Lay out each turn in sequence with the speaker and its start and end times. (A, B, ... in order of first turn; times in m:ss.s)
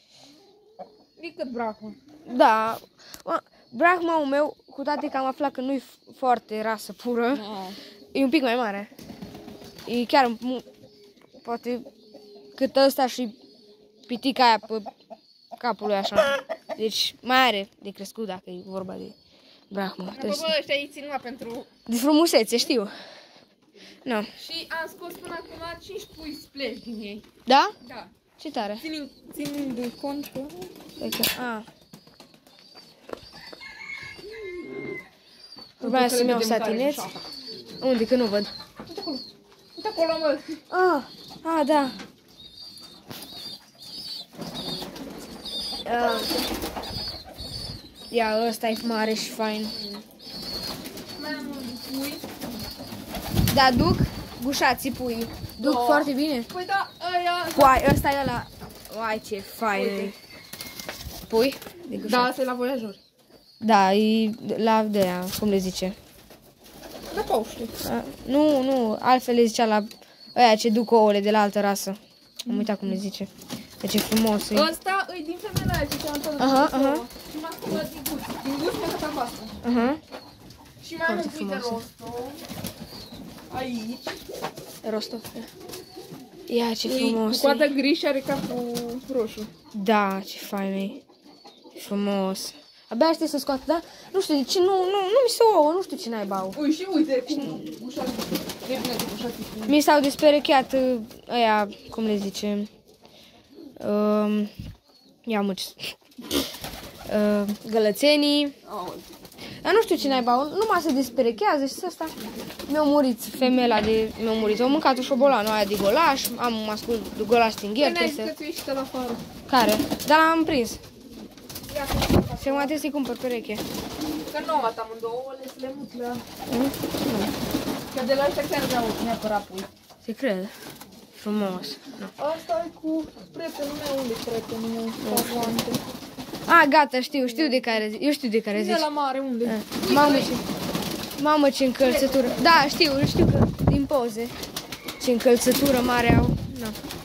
0:01.2-0:02.0 A
0:02.2-0:07.4 B
0:07.3-0:07.8 A
0:08.1-0:08.9 B
0:09.8-0:10.6 B
0:11.4-0:11.9 B
0:12.6-0:13.4 B
0:14.1-0:14.9 B
0:15.6-0:19.1 B
0:19.7-0:20.5 B
0:20.1-0:21.7 A
0:21.9-0:22.9 B
0:24.0-0:24.3 B
0:24.4-0:27.2 A
0:27.4-0:27.7 B
0:27.8-0:28.1 A
0:28.4-0:28.8 B
0:28.8-0:30.7 A
0:31.0-0:31.6 B
0:35.8-0:37.3 A
0:35.8-0:37.1 B
0:37.8-0:38.5 B
0:38.8-0:39.2 A
0:39.8-0:40.6 A
0:40.7-0:42.0 B
0:45.8-0:46.3 B
0:48.1-0:49.8 B
0:49.8-0:50.0 A
0:51.1-0:52.4 A
0:53.5-0:56.5 B
0:55.6-0:57.9 A
0:57.5-1:00.1 B
0:59.7-1:00.1 A
1:01.2-1:02.3 B
1:01.9-1:03.0 A
1:03.6-1:06.0 B
1:07.1-1:07.8 A
1:07.8-1:14.7 B
1:12.5-1:13.0 A
1:14.5-1:19.6 A
1:16.4-1:17.0 B
1:19.6-1:20.0 B
1:20.8-1:22.4 A
1:21.0-1:21.8 B
1:23.5-1:24.2 A
1:24.8-1:25.5 B
1:26.5-1:27.7 B
1:26.8-1:29.5 A
1:29.7-1:31.0 B
1:31.7-1:36.6 B
1:36.5-1:39.8 A
1:39.7-1:42.7 B
1:43.8-1:44.5 B
1:45.2-1:46.0 B
1:47.1-1:48.5 B
1:48.6-1:49.0 A
1:49.6-1:52.1 B
1:52.7-1:58.3 B
1:57.8-1:59.2 A
1:59.5-2:00.8 B
2:01.7-2:02.8 A
2:02.4-2:03.6 B
2:04.3-2:06.2 A
2:06.5-2:07.3 B
2:07.9-2:09.7 A
2:10.0-2:10.5 B
2:11.2-2:12.0 B
2:12.2-2:15.8 A
2:15.0-2:15.6 B
2:16.5-2:18.9 B
2:18.5-2:20.4 A
2:19.4-2:20.4 B
2:21.2-2:24.3 B
2:21.8-2:22.5 A
2:25.0-2:26.8 B